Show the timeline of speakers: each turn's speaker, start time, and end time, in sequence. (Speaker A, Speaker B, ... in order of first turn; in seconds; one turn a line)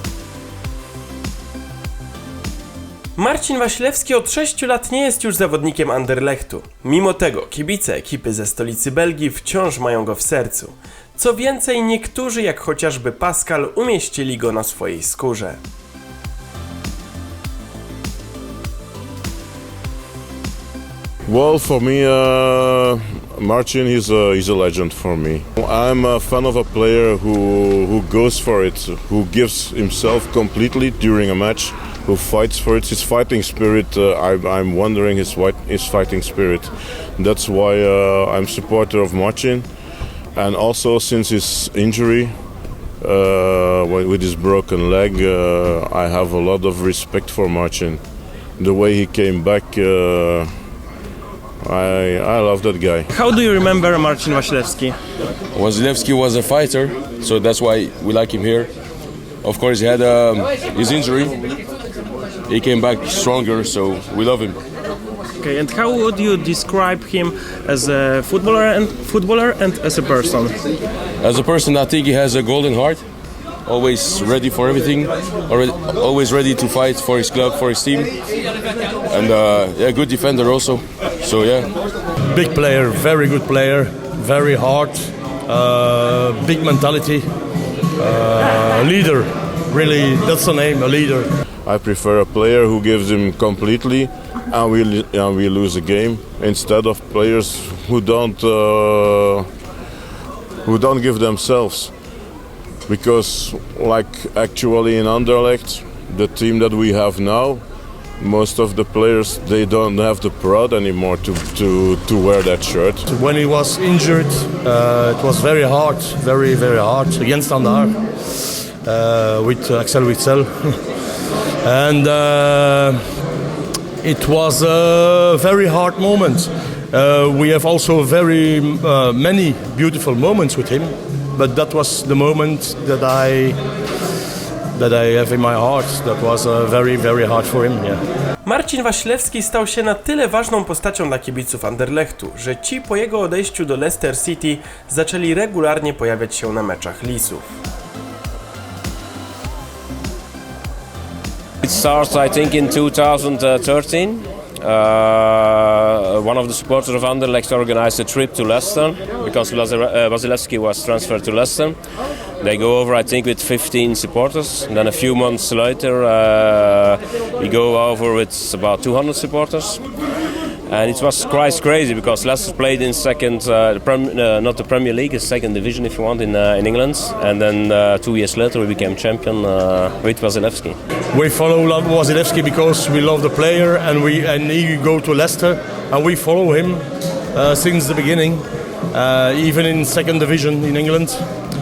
Speaker A: 3.2-15.6
Speaker B: 21.3-39.7
Speaker B: 40.4-42.4
Speaker B: 43.0-48.0
Speaker B: 48.6-50.5
Speaker B: 51.6-53.1
Speaker A: 53.1-55.0
Speaker C: 55.5-58.7
Speaker C: 59.4-61.4
Speaker C: 62.5-64.6
Speaker A: 65.4-70.6
Speaker C: 71.2-73.0
Speaker C: 73.7-78.2
Speaker C: 79.1-81.7
Speaker D: 82.3-87.3
Speaker D: 88.0-91.3
Speaker B: 91.7-99.5
Speaker B: 100.7-101.9
Speaker B: 102.9-107.6
Speaker B: 108.2-113.0
Speaker D: 113.1-118.0
Speaker D: 118.8-120.8
Speaker D: 121.6-123.0
Speaker D: 124.0-133.6
Speaker D: 134.7-138.0
Speaker A: 138.4-147.6
Speaker E: 151.6-161.8
Speaker E: 162.4-169.8
Speaker E: 170.7-180.8
Speaker D: 181.1-191.2